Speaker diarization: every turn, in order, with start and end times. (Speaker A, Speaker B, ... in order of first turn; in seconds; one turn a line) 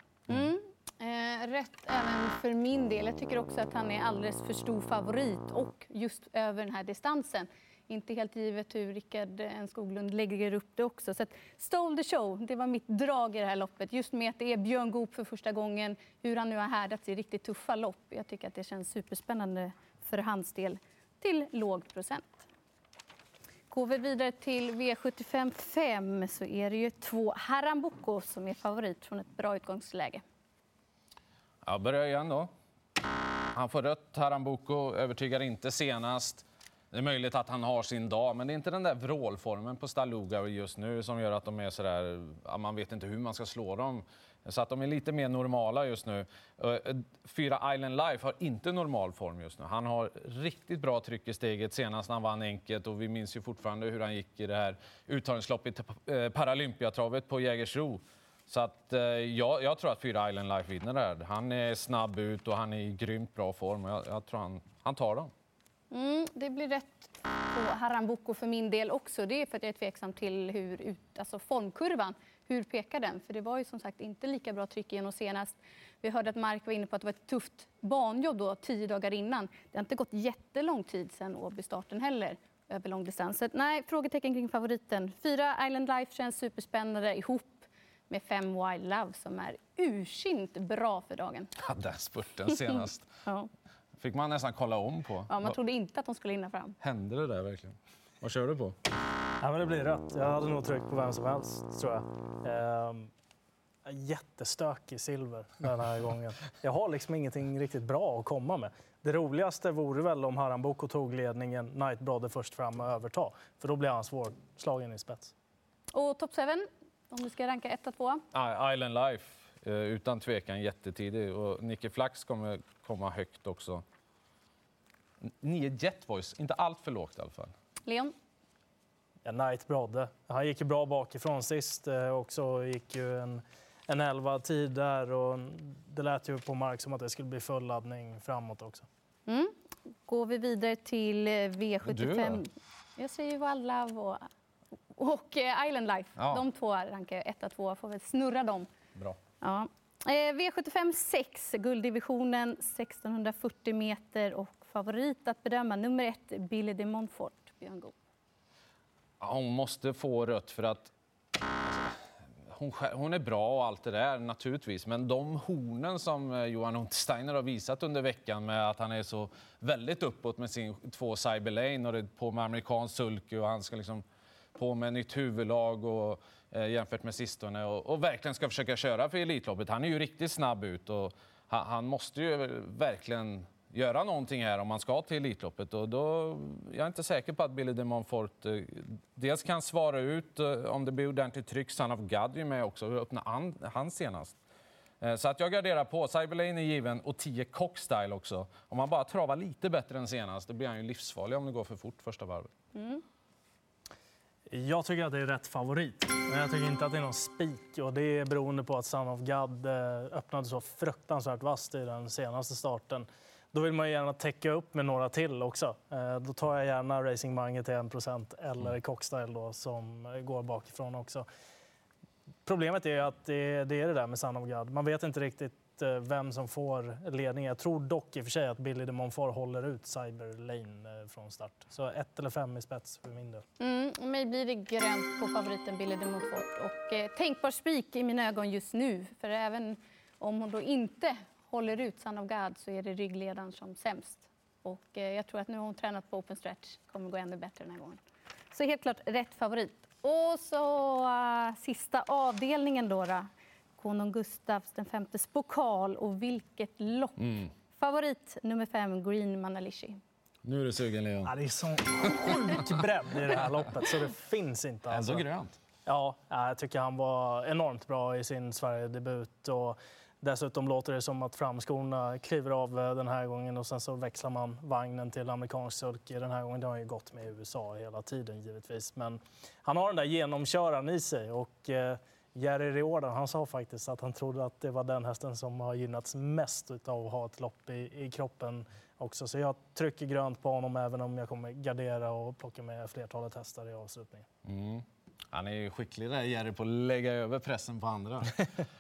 Speaker A: 0.3-22.5
Speaker A: 23.7-30.2
Speaker B: 31.6-32.5
Speaker B: 33.5-65.3
Speaker A: 65.9-91.5
Speaker B: 91.6-93.1
Speaker B: 94.0-95.6
Speaker A: 95.3-96.8
Speaker B: 96.8-98.8
Speaker C: 99.4-103.1
Speaker C: 103.9-115.3
Speaker A: 115.9-118.2
Speaker B: 118.3-123.8
Speaker B: 125.4-127.5
Speaker A: 127.8-128.1
Speaker C: 129.2-138.9
Speaker A: 139.3-139.5
Speaker A: 140.1-144.2
Speaker B: 141.8-142.4
Speaker A: 144.9-148.7
Speaker B: 146.2-146.4
Speaker A: 149.4-157.9
Speaker B: 159.2-160.9
Speaker B: 161.6-174.0
Speaker B: 174.6-194.3
Speaker B: 195.0-202.5
Speaker A: 202.7-203.0
Speaker C: 204.5-221.3
Speaker C: 222.5-233.4
Speaker A: 233.6-248.0
Speaker A: 248.5-260.0
Speaker B: 257.2-257.5
Speaker B: 260.4-261.4
Speaker C: 261.2-265.3
Speaker B: 264.9-265.6
Speaker C: 265.9-294.3
Speaker B: 294.4-298.5